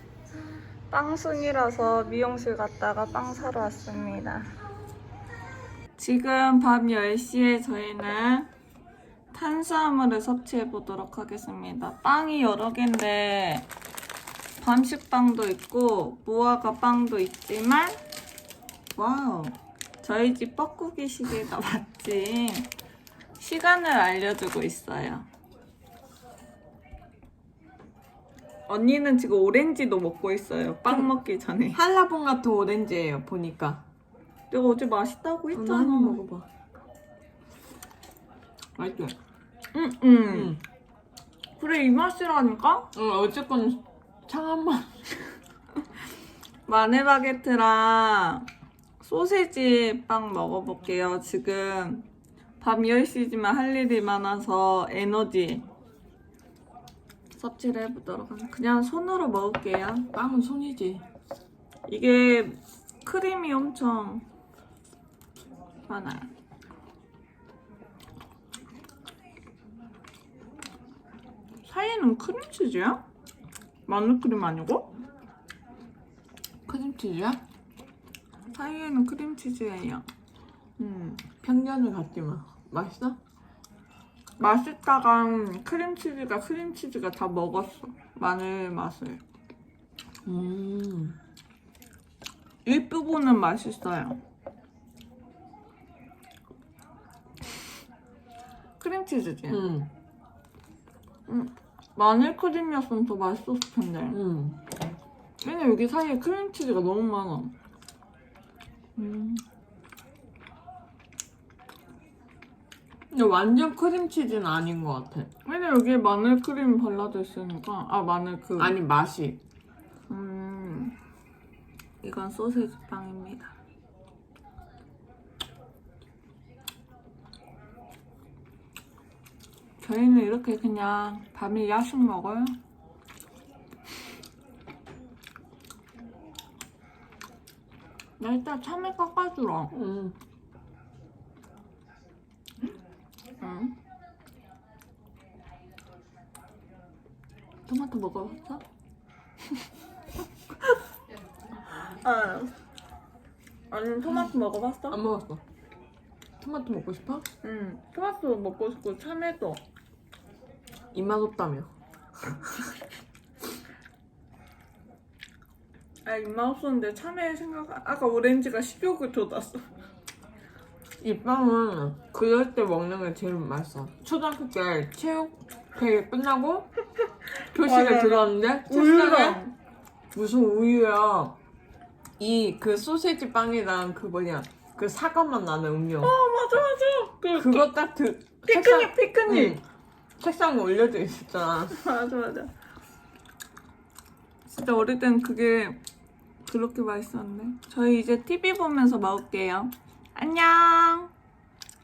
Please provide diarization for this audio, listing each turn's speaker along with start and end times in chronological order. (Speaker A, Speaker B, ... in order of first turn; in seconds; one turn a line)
Speaker A: 0.9-4.5
Speaker A: 6.0-8.5
Speaker A: 9.3-13.7
Speaker A: 14.6-18.0
Speaker A: 18.9-22.7
Speaker A: 23.4-25.3
Speaker A: 28.7-31.8
Speaker B: 31.7-33.9
Speaker A: 34.5-36.2
Speaker B: 35.5-36.5
Speaker B: 38.8-39.1
Speaker A: 39.7-40.6
Speaker B: 40.3-40.6
Speaker A: 41.6-42.9
Speaker B: 42.9-44.9
Speaker A: 46.7-48.5
Speaker A: 49.0-52.1
Speaker A: 52.6-55.7
Speaker A: 57.4-60.1
Speaker B: 60.1-61.0
Speaker A: 61.9-64.2
Speaker A: 65.9-66.3
Speaker A: 71.7-73.0
Speaker A: 73.9-74.9
Speaker B: 76.7-77.4
Speaker A: 78.5-80.0
Speaker A: 80.8-81.2
Speaker B: 81.4-83.2
Speaker A: 84.4-89.2
Speaker B: 90.3-91.2
Speaker A: 92.7-94.2
Speaker A: 98.8-99.7
Speaker B: 99.5-99.9
Speaker A: 101.3-104.2
Speaker B: 104.1-104.6
Speaker A: 105.4-107.5
Speaker B: 109.0-109.4
Speaker B: 113.1-115.3
Speaker A: 115.5-118.8
Speaker B: 118.6-119.4
Speaker A: 120.1-121.0
Speaker A: 122.0-123.5
Speaker A: 129.8-132.6
Speaker A: 138.2-139.8
Speaker B: 139.7-140.2
Speaker A: 143.4-143.8
Speaker A: 147.7-148.6
Speaker A: 151.8-152.5
Speaker A: 153.7-155.0
Speaker B: 154.9-155.4
Speaker B: 156.4-157.3
Speaker A: 157.4-159.6
Speaker B: 160.9-161.7
Speaker A: 166.1-169.7
Speaker B: 171.0-176.7
Speaker A: 177.4-179.5
Speaker B: 177.5-179.4
Speaker B: 180.1-181.4
Speaker B: 182.2-186.1
Speaker A: 186.0-187.7
Speaker B: 187.3-189.6
Speaker A: 188.4-189.6
Speaker B: 190.2-191.8
Speaker A: 191.7-192.5
Speaker A: 194.5-195.8
Speaker A: 196.5-201.1